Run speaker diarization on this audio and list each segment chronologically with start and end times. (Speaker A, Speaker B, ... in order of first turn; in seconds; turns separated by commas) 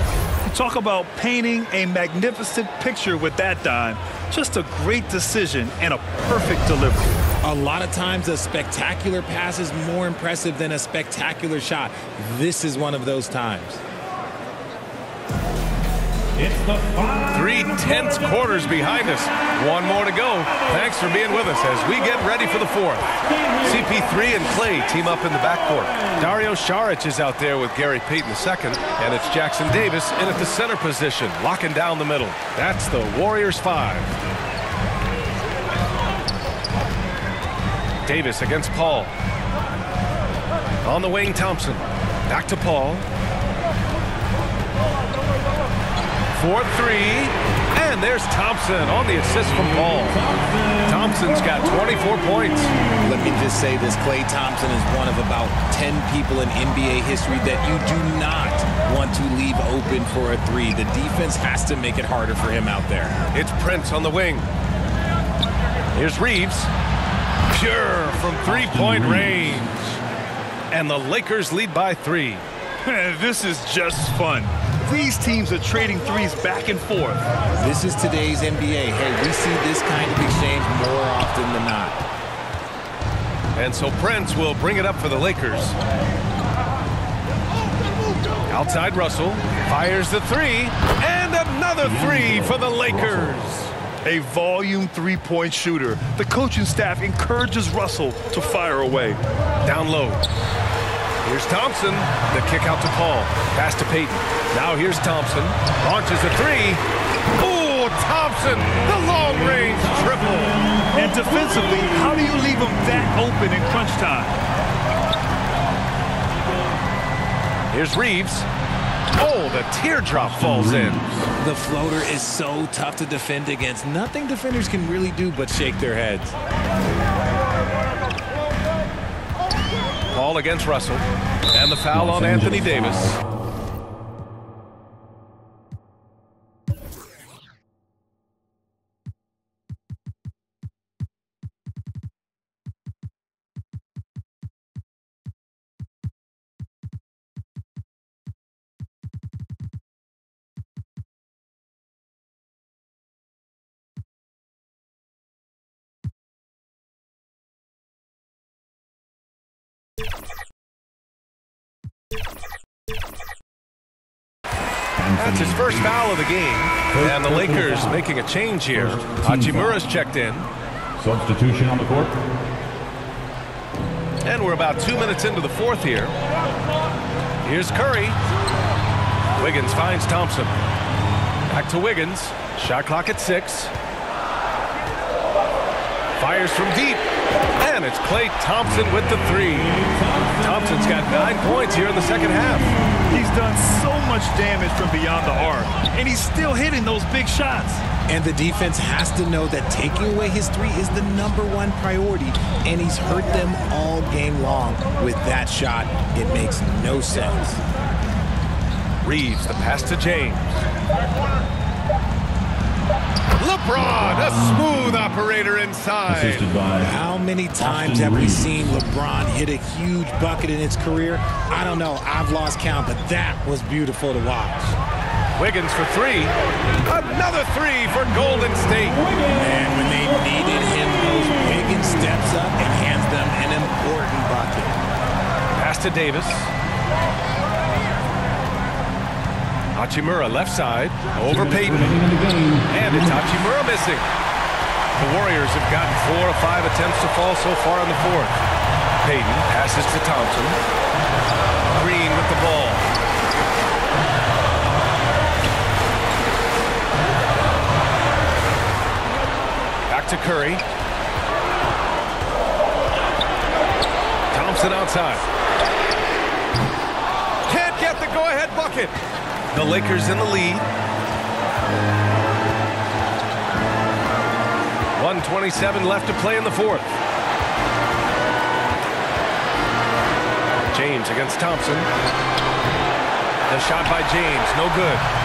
Speaker A: 0.5-7.2, Speaker B: 7.4-13.8, Speaker C: 17.2-34.1, Speaker C: 38.0-39.1, Speaker C: 40.8-43.0, Speaker C: 46.3-50.3, Speaker D: 50.3-50.7, Speaker C: 50.8-52.8, Speaker B: 53.0-63.2, Speaker C: 63.3-64.5, Speaker C: 65.9-66.7, Speaker C: 67.5-70.0, Speaker D: 68.5-69.6, Speaker C: 70.7-72.4, Speaker A: 72.8-77.3, Speaker B: 77.5-82.0, Speaker C: 83.5-85.8, Speaker C: 88.5-93.7, Speaker D: 91.8-93.4, Speaker A: 94.0-99.2, Speaker C: 99.6-100.2, Speaker C: 101.2-106.8, Speaker C: 107.4-110.6, Speaker A: 110.9-114.4, Speaker C: 117.7-118.5, Speaker C: 119.2-121.0, Speaker D: 120.2-121.3, Speaker B: 121.4-126.4, Speaker C: 130.1-133.2, Speaker D: 131.9-133.2, Speaker D: 165.0-166.1, Speaker C: 165.2-170.5, Speaker D: 166.9-168.0, Speaker D: 168.7-169.8, Speaker D: 171.0-172.2, Speaker C: 174.2-176.2, Speaker C: 177.4-178.2, Speaker C: 179.4-180.5, Speaker C: 181.5-183.7, Speaker C: 186.2-187.0, Speaker C: 187.6-192.7, Speaker A: 193.1-197.8, Speaker B: 198.1-207.6, Speaker C: 209.0-210.6, Speaker C: 213.4-216.5, Speaker D: 213.8-214.9, Speaker D: 216.1-216.9, Speaker B: 216.8-224.8, Speaker D: 217.6-218.8, Speaker C: 225.4-229.1, Speaker B: 229.3-234.9, Speaker C: 235.6-236.5, Speaker C: 239.8-242.1, Speaker D: 241.2-243.3, Speaker C: 242.7-244.1, Speaker C: 245.0-248.4, Speaker C: 249.0-250.6, Speaker C: 251.7-252.8, Speaker C: 259.9-260.6, Speaker C: 264.3-265.2, Speaker C: 267.5-269.0, Speaker C: 269.5-270.7, Speaker C: 275.0-276.9, Speaker C: 280.7-281.9, Speaker C: 283.5-285.0